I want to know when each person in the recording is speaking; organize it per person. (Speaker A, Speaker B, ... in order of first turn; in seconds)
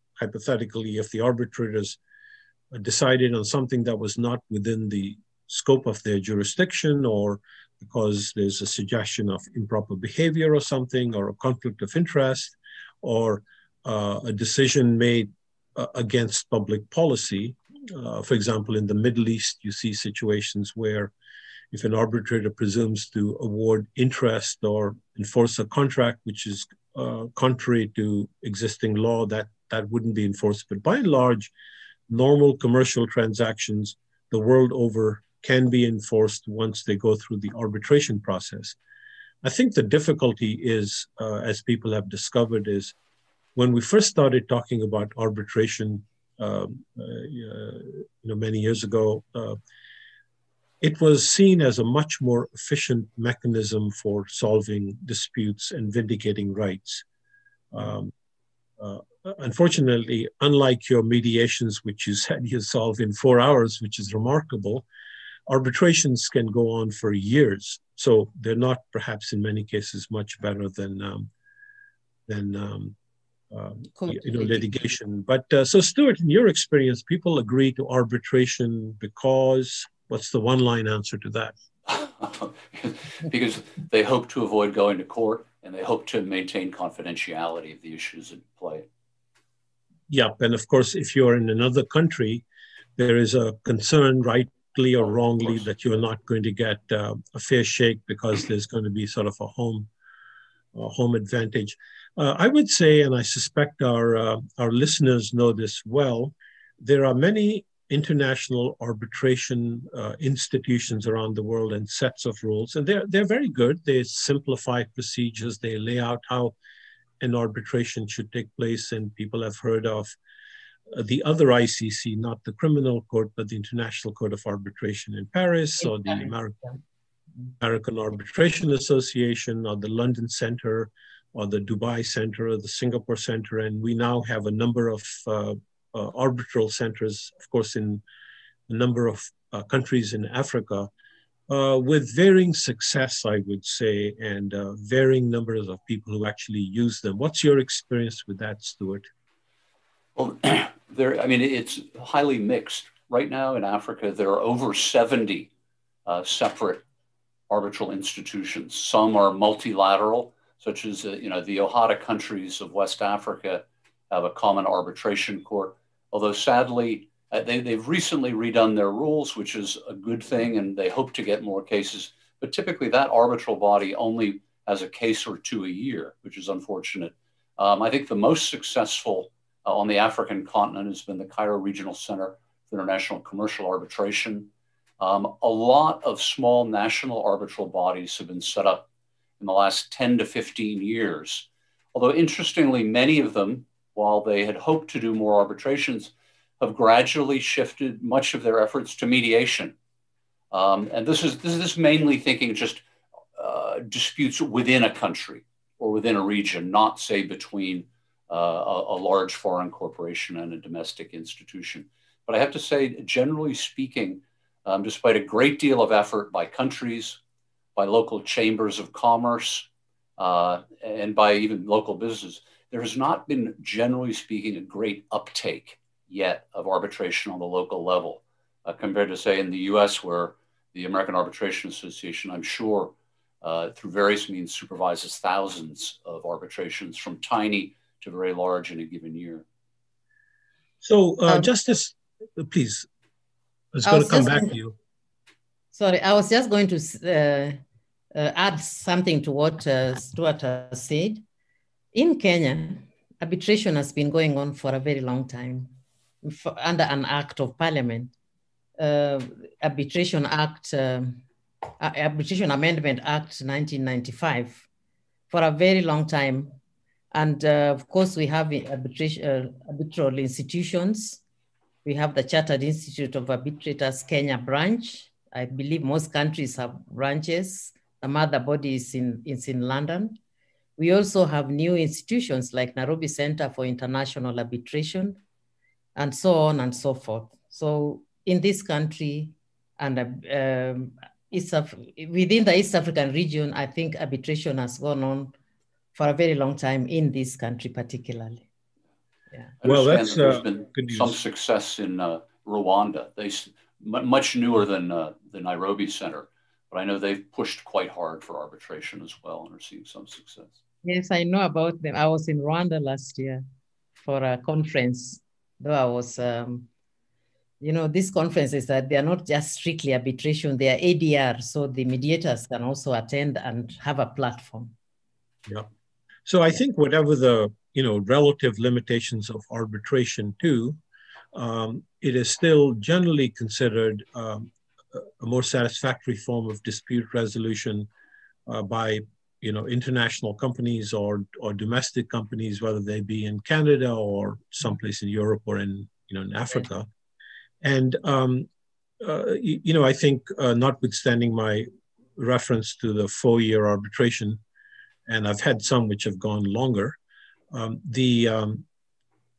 Speaker A: 0.2-2.0, 2.7-21.1, 21.7-31.5, 32.1-38.8, 39.4-43.0, 43.5-49.6, 50.8-57.0, 57.7-58.1, 58.8-64.9, 65.5-71.3, 72.3-73.0, 73.5-81.6, 90.1-92.4, 93.0-99.9, 100.7-116.5, 117.2-120.1, 120.9-126.7, 127.6-138.0, 138.7-140.9, 141.5-149.1, 240.8-242.9, 243.7-244.7, 299.6-301.2, 326.2-330.8, 331.3-337.9, 338.5-346.9, 347.6-348.5, 349.0-354.4, 355.1-357.0, 357.5-358.6
Speaker B: 74.0-74.7, 126.0-126.3, 243.8-244.5, 245.7-247.6, 248.1-251.2, 251.9-258.1, 258.8-261.2, 261.8-264.7, 265.3-266.6, 267.1-271.2, 271.8-280.2, 280.8-285.2, 285.9-295.3, 295.9-298.4, 310.8-313.4, 314.0-316.7, 317.6-324.7
Speaker C: 81.9-88.9, 150.2-155.5, 156.1-156.8, 157.5-188.9, 189.4-199.7, 200.5-202.8, 203.3-217.2, 217.8-239.4, 299.6-310.5